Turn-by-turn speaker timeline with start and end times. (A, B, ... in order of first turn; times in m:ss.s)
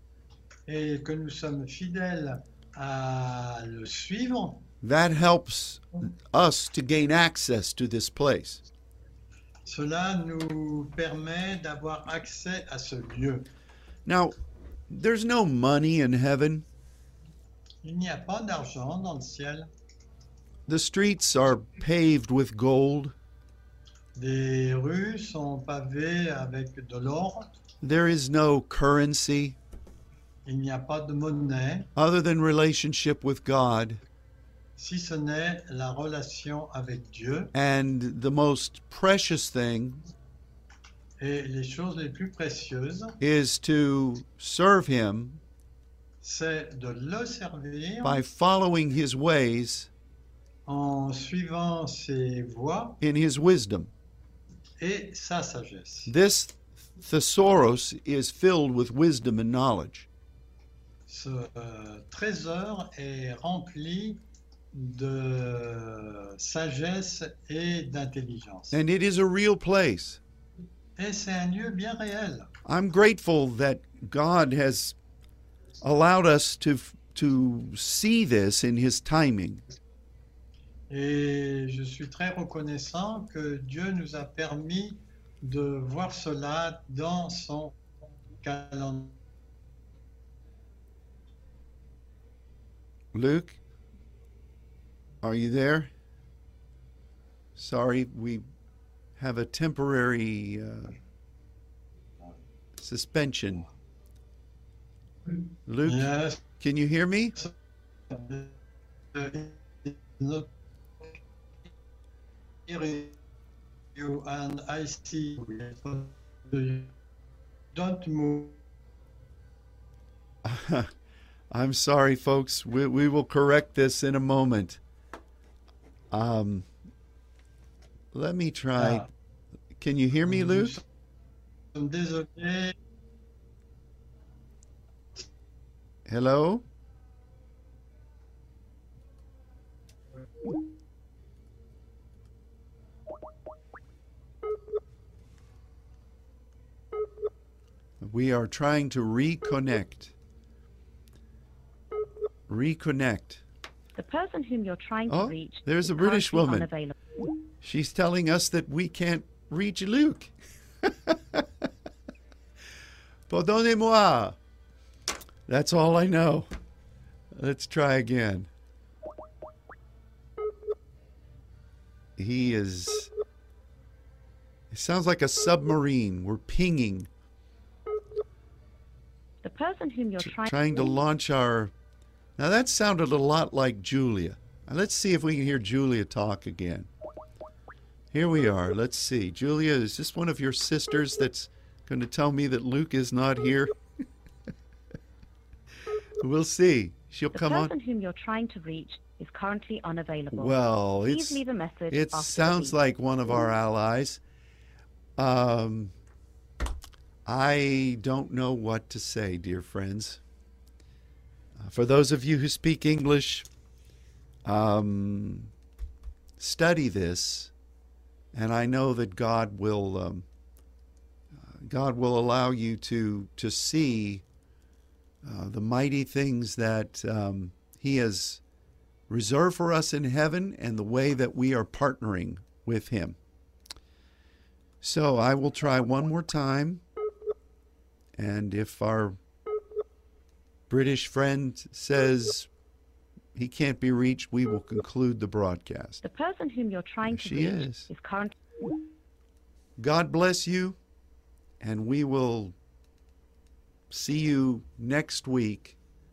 0:00.7-0:04.6 A
0:04.8-0:08.6 B
0:09.7-0:13.5 A
0:14.0-0:14.4 B
0:14.9-0:16.6 B
0:17.8-0:19.7 A
0:20.7-0:23.2 B
0:24.2-0:27.5 A
0:27.8-0:29.6 B
0:30.5-0:31.9 A
0:32.0-0:34.0 B
0:34.8-0:37.5 A
0:37.5-0:40.0 B
0:41.2-0:43.2 A
0:43.2-0:45.4 B
0:46.2-0:48.2 A
0:48.0-0:49.9 B
0:50.7-0:53.0 A
0:53.0-0:53.9 B
0:54.8-0:56.1 A
0:56.1-1:00.1 B
1:01.1-1:04.2 A
1:04.7-1:08.8 A
1:08.7-1:10.2 B
1:11.0-1:12.5 A
1:12.6-1:15.0 B
1:15.8-1:19.6 B
1:20.9-1:27.8 A
1:28.4-1:29.2 A
1:33.1-1:33.6 B
1:35.2-1:35.9 B
1:37.6-1:38.4 B
1:39.2-1:41.0 B
1:42.8-1:43.7 B
1:45.7-1:47.4 B
1:45.9-1:46.4 A
1:48.1-1:48.6 A
1:49.1-1:50.5 A
1:52.7-1:53.2 A
1:54.0-1:56.9 A
1:57.7-1:58.6 A
2:00.4-2:00.9 B
2:01.5-2:04.8 B
2:06.1-2:06.7 B
2:08.1-2:09.1 B
2:08.8-2:09.1 A
2:09.8-2:10.8 B
2:11.7-2:12.8 A
2:16.1-2:16.6 B
2:28.0-2:30.1 B
2:32.5-2:33.4 B
2:34.0-2:36.9 C
2:35.1-2:36.7 B
2:37.6-2:41.5 B
2:43.3-2:44.4 B
2:45.5-2:46.5 B
2:47.4-2:48.5 B
2:52.2-2:53.1 B
2:54.7-2:57.1 B
2:59.4-3:00.9 C
3:00.2-3:01.7 B
3:02.4-3:06.9 B
3:08.1-3:13.7 B
3:16.2-3:17.7 B
3:17.3-3:20.6 C
3:20.3-3:24.2 B
3:21.1-3:22.8 C
3:25.2-3:25.9 B
3:27.3-3:30.2 B
3:31.6-3:33.5 B
3:34.4-3:35.5 B
3:36.4-3:37.5 B
3:38.3-3:40.3 B
3:41.4-3:44.2 B
3:45.2-3:48.4 B
3:49.1-3:53.2 B
3:54.8-3:56.8 B
3:58.2-3:59.2 B
4:00.7-4:02.5 B
4:03.4-4:06.0 B
4:06.0-4:08.3 C
4:07.0-4:07.9 B
4:09.8-4:10.8 B
4:11.6-4:12.6 B
4:13.9-4:15.8 B